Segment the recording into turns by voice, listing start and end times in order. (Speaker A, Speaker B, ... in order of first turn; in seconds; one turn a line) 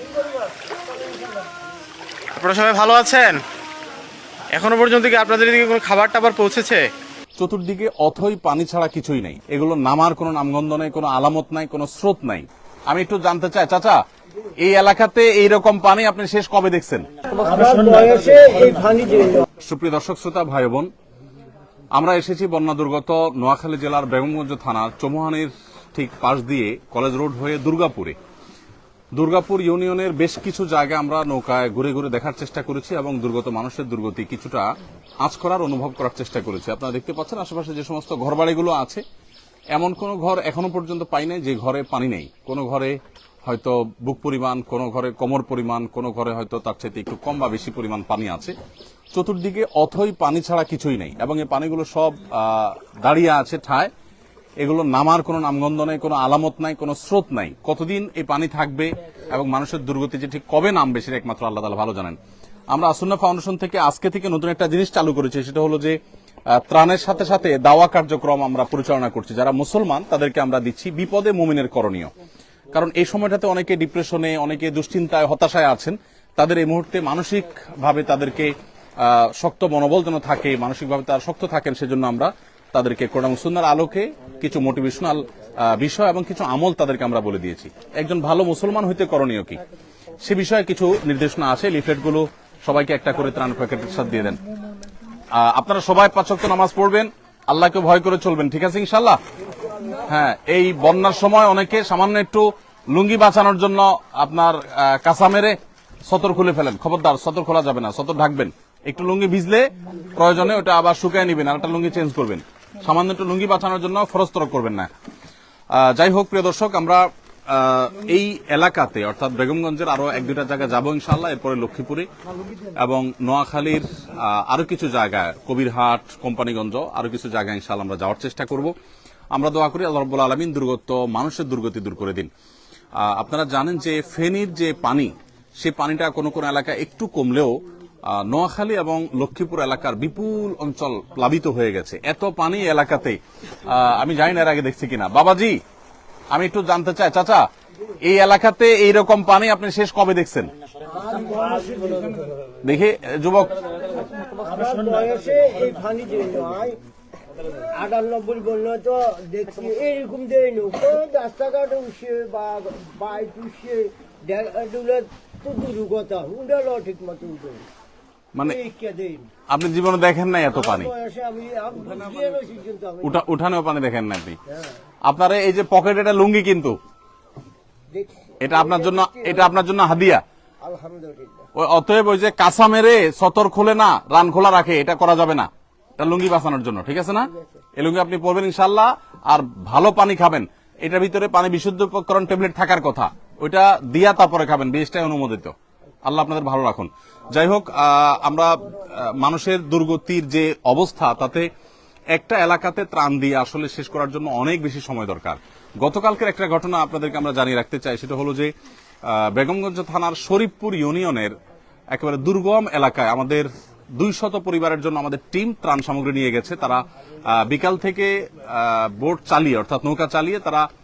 Speaker A: 0.2-1.4
Speaker B: 2.4-3.4
Speaker B: 4.5-6.9
Speaker C: 7.4-14.0
Speaker C: 14.6-17.1
Speaker A: 17.3-19.4
Speaker C: 19.6-20.9
Speaker C: 21.9-28.2
Speaker C: 29.1-34.7
Speaker C: 35.2-39.0
Speaker C: 39.7-48.5
Speaker C: 49.1-53.9
Speaker C: 54.6-62.2
Speaker C: 62.7-66.0
Speaker C: 66.5-72.1
Speaker C: 72.7-89.6
Speaker C: 90.2-94.4
Speaker C: 95.3-99.2
Speaker C: 100.1-114.9
Speaker C: 115.7-122.1
Speaker C: 122.7-128.7
Speaker C: 129.3-132.3
Speaker C: 133.0-137.6
Speaker C: 138.1-145.6
Speaker C: 146.3-147.5
Speaker C: 148.0-150.5
Speaker A: 150.9-152.4
Speaker C: 152.6-153.6
Speaker A: 154.2-156.8
Speaker A: 157.6-167.7
Speaker C: 168.3-168.6
Speaker A: 168.4-169.3
Speaker C: 169.5-170.9
Speaker A: 170.7-173.0
Speaker C: 173.0-174.4
Speaker C: 175.1-176.8
Speaker A: 177.9-179.3
Speaker C: 178.4-180.2
Speaker A: 180.6-181.4
Speaker C: 181.6-201.5
Speaker C: 202.1-208.5
Speaker C: 209.1-211.3
Speaker C: 211.9-220.7